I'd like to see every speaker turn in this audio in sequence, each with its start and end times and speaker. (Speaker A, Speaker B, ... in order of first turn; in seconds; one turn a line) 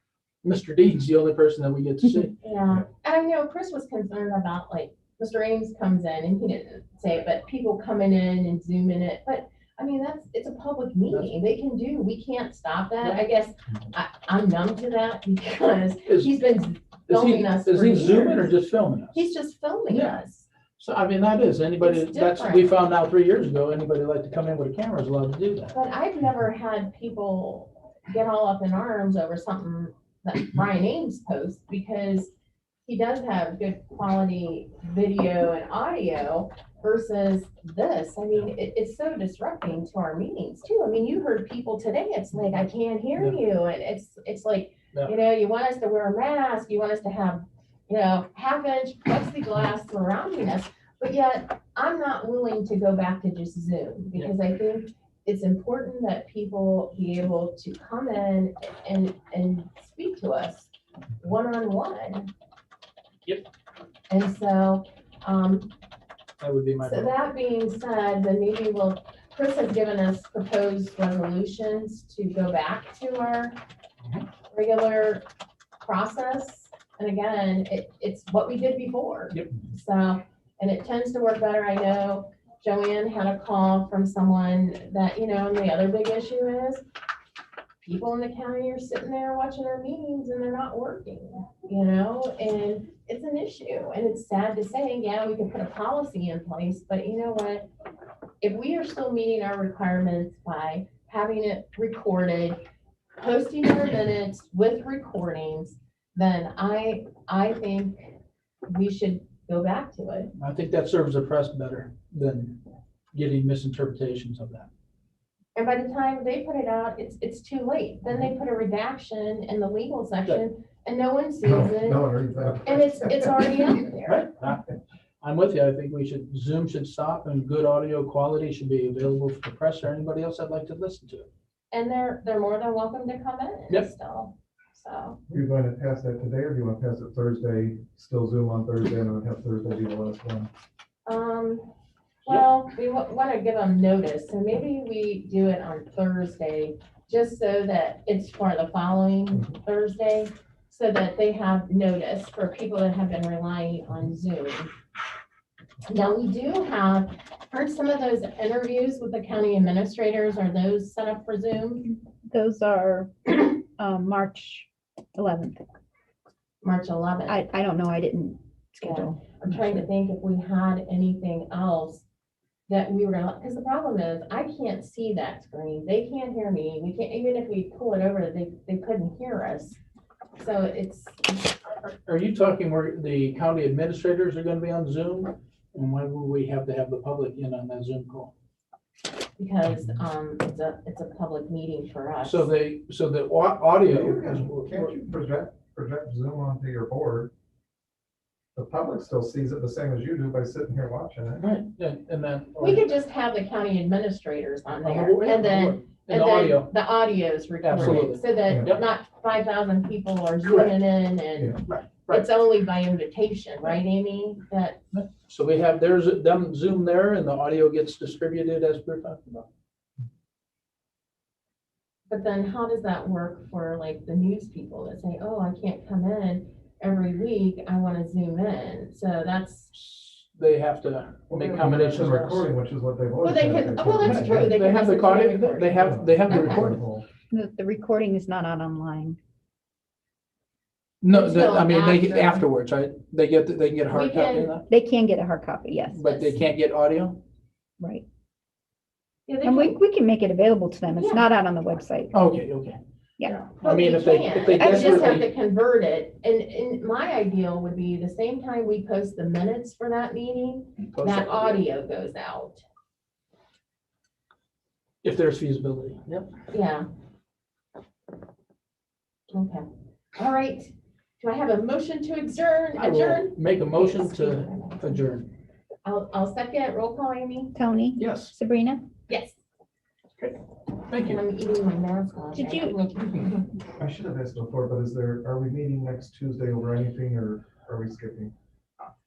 Speaker A: 0.4-2.4
Speaker B: 2.4-18.5
Speaker A: 16.1-16.3
Speaker A: 17.1-19.3
Speaker B: 19.1-20.5
Speaker A: 19.9-20.2
Speaker A: 20.8-25.8
Speaker B: 21.8-22.7
Speaker B: 25.7-32.3
Speaker B: 32.9-62.3
Speaker B: 64.1-65.7
Speaker A: 66.4-67.1
Speaker B: 66.8-73.6
Speaker B: 74.5-75.3
Speaker B: 75.8-86.8
Speaker B: 87.8-97.7
Speaker B: 98.4-102.6
Speaker B: 103.2-108.1
Speaker B: 108.7-110.3
Speaker A: 110.4-112.6
Speaker A: 113.1-114.7
Speaker B: 115.5-122.1
Speaker C: 121.4-123.5
Speaker B: 122.7-124.2
Speaker A: 124.1-131.3
Speaker B: 131.7-135.2
Speaker C: 135.3-140.5
Speaker B: 141.1-141.7
Speaker B: 142.2-154.7
Speaker B: 155.8-161.9
Speaker D: 162.3-165.7
Speaker B: 166.6-167.4
Speaker D: 167.3-169.2
Speaker B: 168.8-172.1
Speaker B: 172.7-179.8
Speaker B: 180.4-181.4
Speaker A: 181.8-188.3
Speaker B: 189.4-192.5
Speaker A: 192.2-194.9
Speaker C: 193.9-197.3
Speaker C: 198.6-201.5
Speaker A: 201.4-202.9
Speaker B: 202.6-214.8
Speaker A: 204.8-206.7
Speaker A: 207.6-208.8
Speaker C: 207.8-208.8
Speaker A: 210.4-210.7
Speaker A: 211.7-212.3
Speaker A: 214.9-219.5
Speaker B: 222.1-229.7
Speaker A: 229.7-232.5
Speaker C: 231.3-234.6
Speaker B: 233.2-236.8
Speaker A: 234.0-236.8
Speaker C: 235.8-237.1
Speaker D: 237.3-239.2
Speaker A: 241.0-244.6
Speaker B: 241.1-242.5
Speaker B: 243.9-244.6
Speaker D: 244.7-246.1
Speaker A: 245.9-247.2
Speaker B: 246.0-246.4
Speaker D: 247.8-248.1
Speaker B: 249.3-249.8
Speaker D: 249.4-252.1
Speaker B: 250.9-251.2
Speaker A: 252.1-252.8
Speaker A: 253.3-255.3
Speaker B: 253.6-262.6
Speaker D: 254.6-255.2
Speaker A: 260.9-261.6
Speaker A: 265.0-266.3
Speaker B: 266.5-266.9
Speaker B: 269.3-269.6
Speaker B: 270.2-275.1
Speaker A: 272.8-275.3
Speaker B: 275.8-277.5
Speaker D: 277.5-278.9
Speaker A: 278.0-278.3
Speaker B: 279.1-279.4
Speaker A: 280.2-281.2
Speaker B: 281.0-283.5
Speaker D: 282.3-282.9
Speaker C: 283.8-288.3